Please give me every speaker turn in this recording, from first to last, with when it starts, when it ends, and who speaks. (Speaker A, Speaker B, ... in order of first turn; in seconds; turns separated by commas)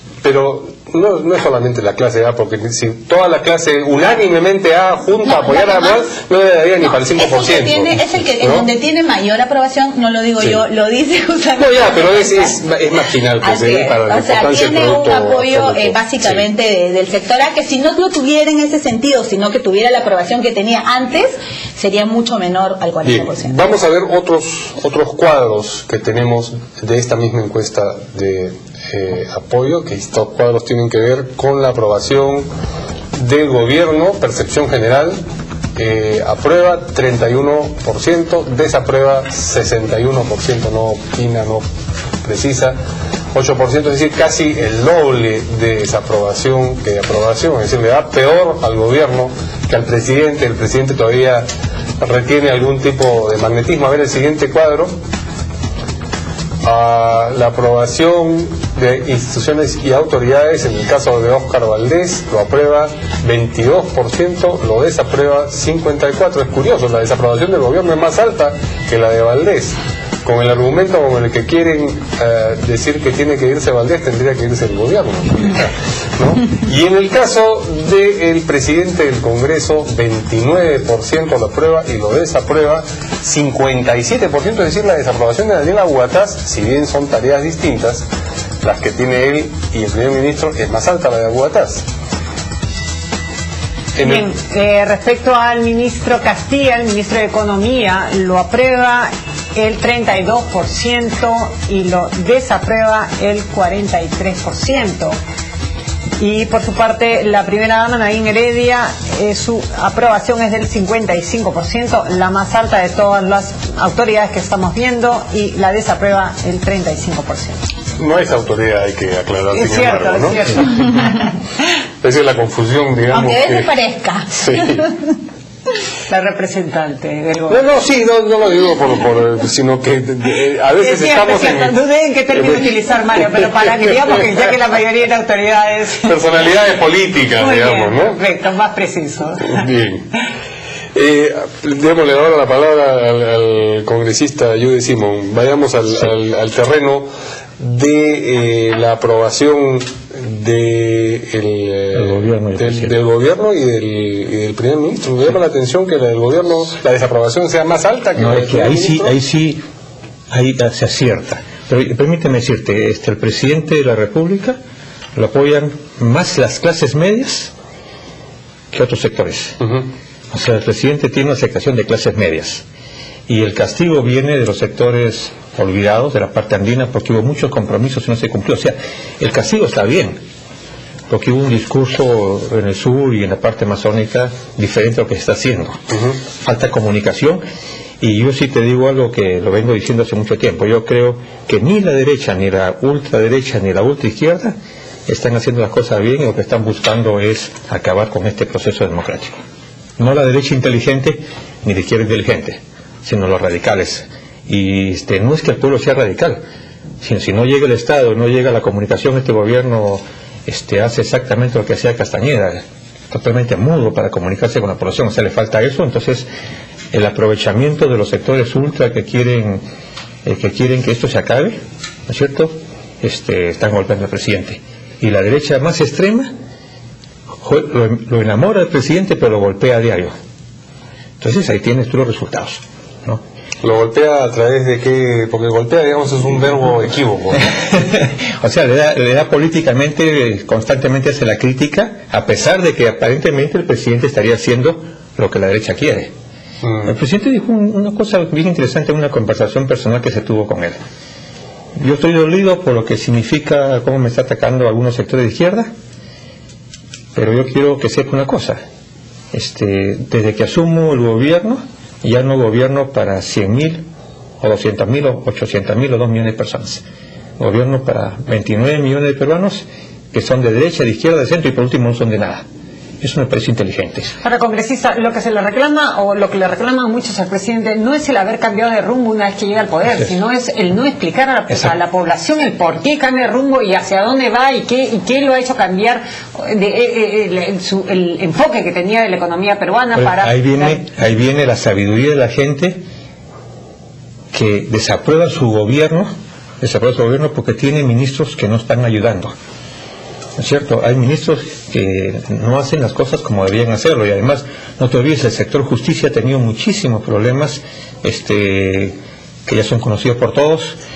Speaker A: 0.2-8.7, Speaker B: 5.4-5.8, Speaker B: 7.2-12.5, Speaker A: 11.6-16.4, Speaker B: 13.4-23.6, Speaker A: 23.1-32.5, Speaker A: 33.1-35.2, Speaker A: 35.8-41.6, Speaker A: 42.2-42.8, Speaker A: 43.3-51.5, Speaker A: 52.0-54.9, Speaker A: 56.6-88.1, Speaker A: 88.6-91.9, Speaker A: 94.0-94.3, Speaker C: 94.0-105.2, Speaker C: 106.2-117.6, Speaker A: 118.0-120.4, Speaker C: 119.5-121.3, Speaker A: 122.0-123.7, Speaker B: 123.1-124.9, Speaker A: 124.3-124.9, Speaker C: 126.1-127.6, Speaker A: 127.5-131.8, Speaker C: 130.8-136.1, Speaker A: 136.0-138.2, Speaker C: 137.4-139.7, Speaker A: 139.5-140.1, Speaker A: 140.9-147.1, Speaker A: 147.6-159.2, Speaker D: 151.9-152.9, Speaker D: 158.2-159.6, Speaker D: 160.3-164.6, Speaker D: 165.2-167.5, Speaker D: 168.7-169.6, Speaker A: 169.6-169.9, Speaker D: 170.3-172.6, Speaker D: 173.3-180.2, Speaker D: 181.1-185.8, Speaker A: 185.9-186.2, Speaker D: 186.4-187.4, Speaker D: 188.0-194.6, Speaker D: 195.1-199.4, Speaker D: 200.0-206.4, Speaker D: 207.0-216.3, Speaker D: 216.9-219.6, Speaker D: 220.2-226.3, Speaker D: 227.4-230.1, Speaker D: 231.2-233.2, Speaker A: 233.6-237.6, Speaker D: 237.6-246.1, Speaker A: 246.6-246.9, Speaker D: 246.8-250.8, Speaker D: 251.8-255.7, Speaker D: 257.1-258.6, Speaker D: 259.3-263.8, Speaker D: 264.4-266.8, Speaker D: 267.4-272.4, Speaker D: 273.0-274.1, Speaker C: 274.2-290.8, Speaker D: 289.9-292.8, Speaker D: 294.3-299.3, Speaker D: 300.4-310.8